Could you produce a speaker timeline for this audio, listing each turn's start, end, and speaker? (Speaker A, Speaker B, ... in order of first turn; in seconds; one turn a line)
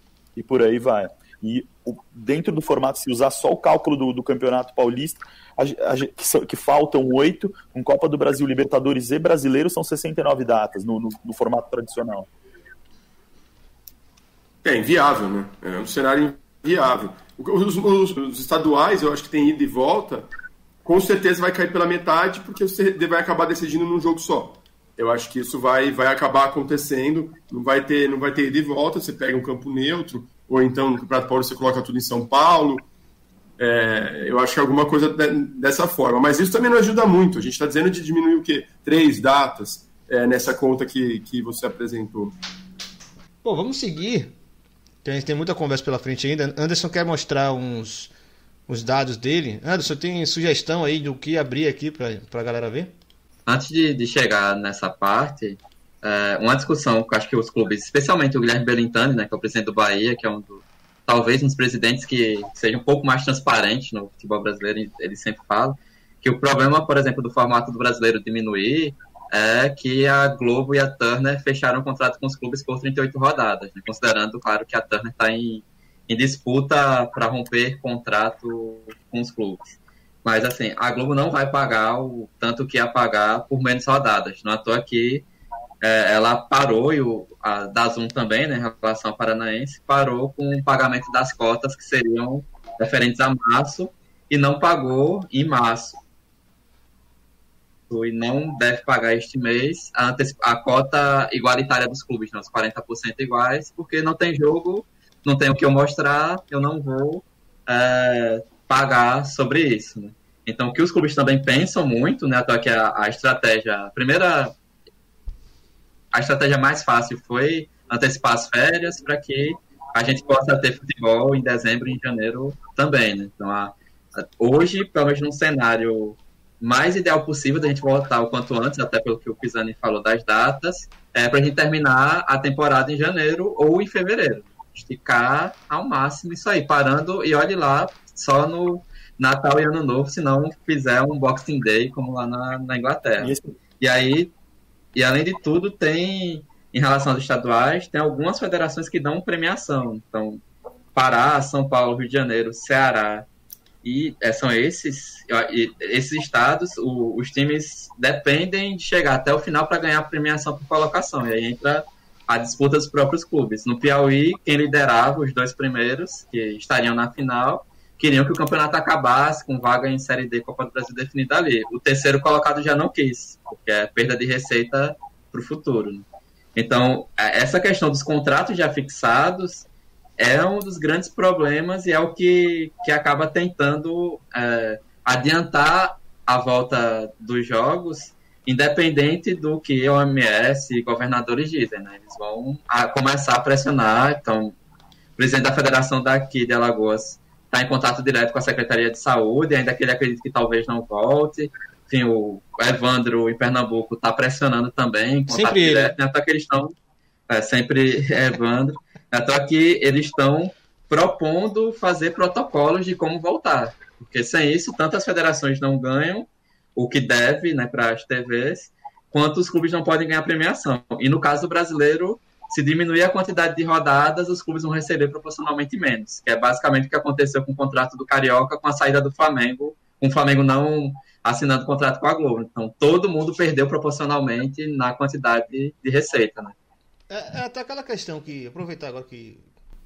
Speaker A: 0.3-12.3
Speaker B: 14.6-20.3
Speaker B: 20.8-32.9
Speaker B: 33.6-42.4
Speaker C: 43.4-44.3
Speaker C: 45.0-48.1
Speaker C: 48.7-52.9
Speaker D: 53.5-85.2
Speaker D: 85.8-96.0
Speaker D: 97.9-114.5
Speaker D: 116.1-144.3
Speaker A: 143.2-143.5
Speaker D: 144.9-150.4
Speaker D: 150.9-153.2
Speaker D: 153.8-176.0
Speaker D: 176.6-179.7
Speaker D: 180.2-194.5
Speaker D: 195.2-206.7
Speaker C: 205.3-205.9
Speaker D: 207.3-236.5
Speaker C: 237.1-239.4